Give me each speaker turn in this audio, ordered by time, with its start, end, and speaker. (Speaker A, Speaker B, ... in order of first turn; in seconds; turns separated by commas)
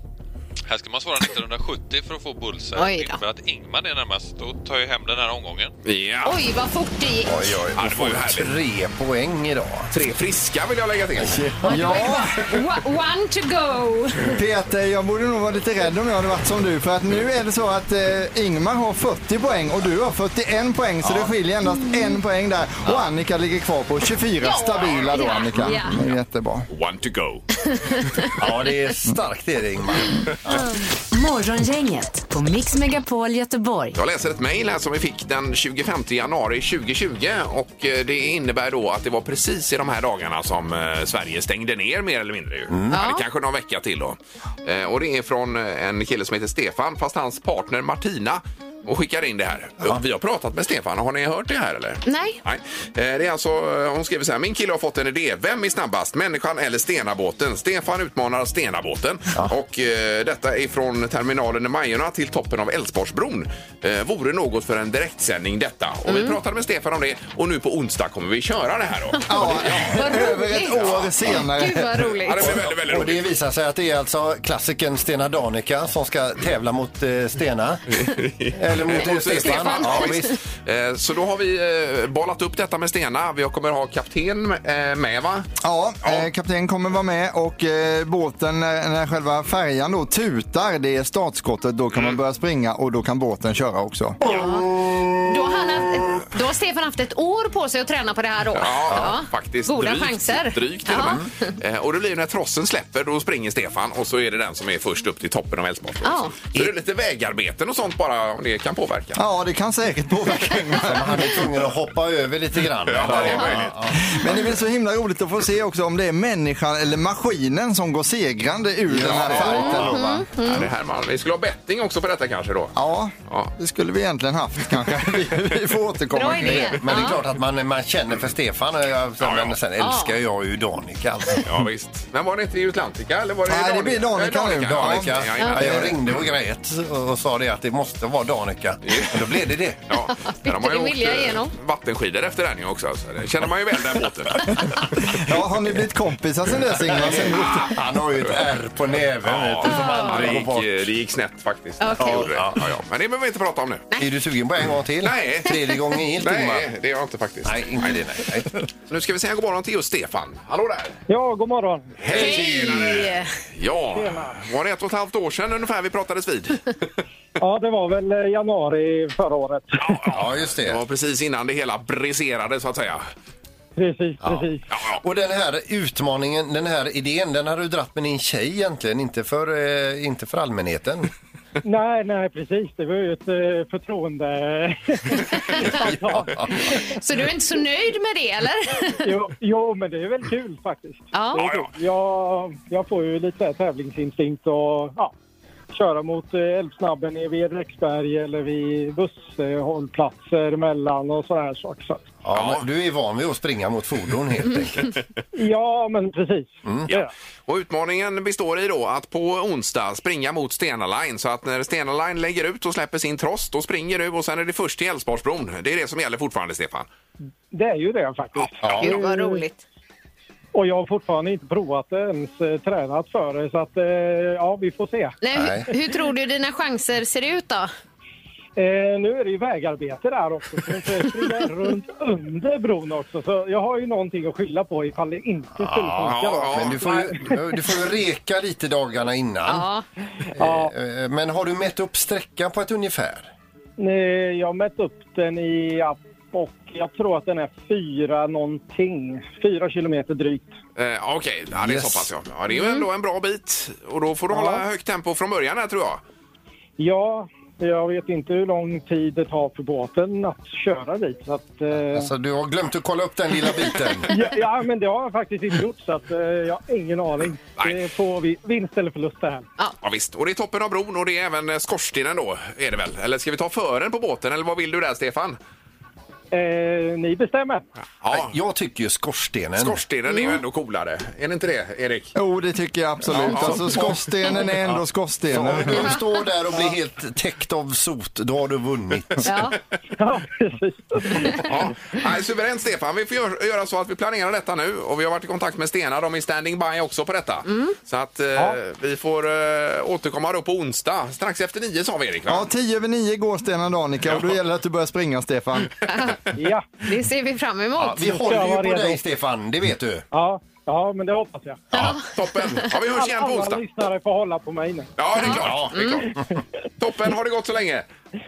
Speaker A: 0.7-5.7, Speaker B: 2.8-3.2, Speaker C: 5.8-6.4, Speaker B: 6.2-7.4, Speaker D: 7.3-9.9, Speaker C: 7.7-8.5, Speaker C: 9.9-11.5, Speaker D: 11.2-11.5, Speaker E: 11.2-12.5, Speaker B: 11.6-14.3, Speaker E: 14.3-26.7, Speaker D: 21.0-21.3, Speaker B: 24.4-26.0, Speaker C: 26.7-27.4, Speaker B: 27.7-28.4, Speaker D: 28.4-30.8, Speaker B: 30.5-30.7, Speaker F: 31.1-34.0, Speaker C: 34.0-70.0, Speaker D: 42.7-43.0, Speaker B: 42.9-43.2, Speaker B: 52.0-52.4, Speaker B: 66.1-66.4, Speaker E: 69.3-72.1, Speaker B: 69.3-72.6, Speaker C: 70.6-71.2, Speaker C: 72.2-73.3, Speaker D: 72.4-77.8, Speaker C: 77.9-85.5, Speaker D: 78.5-80.4, Speaker B: 79.3-80.4, Speaker E: 85.6-94.2, Speaker C: 91.9-92.2, Speaker B: 94.2-94.7, Speaker D: 94.3-95.1, Speaker B: 95.2-101.5, Speaker C: 98.6-109.2, Speaker D: 98.9-99.1, Speaker D: 101.0-101.3, Speaker B: 106.0-106.3, Speaker E: 109.2-111.4, Speaker D: 110.8-114.5, Speaker C: 112.9-113.8, Speaker B: 113.2-113.5, Speaker E: 114.0-120.3, Speaker D: 118.9-120.0, Speaker C: 119.0-119.8, Speaker B: 119.4-120.7, Speaker C: 120.4-122.8, Speaker E: 122.8-127.0, Speaker B: 126.1-127.2, Speaker D: 126.3-131.5, Speaker C: 129.2-129.6, Speaker B: 129.8-130.2, Speaker C: 131.4-136.2, Speaker E: 133.5-135.9, Speaker D: 134.6-139.8, Speaker C: 138.9-145.0, Speaker B: 140.0-141.5, Speaker E: 144.9-147.7, Speaker D: 146.9-150.9, Speaker C: 147.0-148.4, Speaker C: 149.2-153.9, Speaker B: 149.6-150.4, Speaker B: 151.8-152.3, Speaker D: 152.0-152.6, Speaker D: 154.0-156.7, Speaker C: 155.0-155.6, Speaker C: 156.2-158.0, Speaker D: 157.4-158.6, Speaker C: 158.9-161.0, Speaker G: 161.1-162.0, Speaker C: 162.0-166.9, Speaker D: 162.1-162.8, Speaker B: 162.1-163.3, Speaker G: 163.9-164.4, Speaker G: 167.4-170.0, Speaker C: 169.8-173.1, Speaker D: 170.1-170.8, Speaker G: 173.8-174.7, Speaker D: 174.2-174.5, Speaker C: 174.7-175.0, Speaker D: 175.0-181.1, Speaker G: 181.6-186.3, Speaker B: 185.5-185.8, Speaker D: 185.6-186.7, Speaker B: 186.7-189.1, Speaker G: 189.0-195.1, Speaker B: 191.1-191.5, Speaker C: 191.4-191.7, Speaker G: 195.7-202.0, Speaker D: 202.2-205.0, Speaker C: 202.3-202.7, Speaker G: 205.3-207.1, Speaker D: 206.7-206.9, Speaker C: 206.9-216.9, Speaker G: 217.5-219.4, Speaker D: 218.6-219.0, Speaker B: 218.8-219.6, Speaker G: 220.5-225.2, Speaker B: 225.2-227.7, Speaker D: 225.3-225.7, Speaker G: 228.6-237.4, Speaker D: 235.6-239.7, Speaker C: 236.0-236.8, Speaker B: 239.5-239.8, Speaker D: 240.4-243.3, Speaker G: 240.4-240.7, Speaker G: 243.8-250.5, Speaker C: 250.8-256.0, Speaker D: 251.6-252.1, Speaker B: 252.5-252.8, Speaker G: 254.3-254.7, Speaker G: 256.8-262.1, Speaker D: 261.9-264.1, Speaker G: 264.1-269.5, Speaker C: 269.8-275.4, Speaker G: 276.3-277.6, Speaker C: 278.0-278.3, Speaker D: 278.1-279.8, Speaker C: 279.6-282.1, Speaker B: 280.1-280.4, Speaker E: 282.1-286.0, Speaker C: 283.1-283.9, Speaker D: 283.2-289.3, Speaker B: 289.2-289.6, Speaker G: 290.0-291.6, Speaker C: 291.4-302.5, Speaker B: 297.5-297.8, Speaker E: 302.3-305.8, Speaker B: 305.9-306.2, Speaker G: 306.4-306.8, Speaker B: 306.8-308.1, Speaker D: 307.8-310.1, Speaker G: 308.1-309.0, Speaker G: 310.1-311.8, Speaker B: 311.7-312.1, Speaker C: 311.8-313.6, Speaker G: 312.7-314.9, Speaker C: 315.0-316.1, Speaker B: 315.2-316.1, Speaker D: 315.2-316.4, Speaker C: 316.8-317.9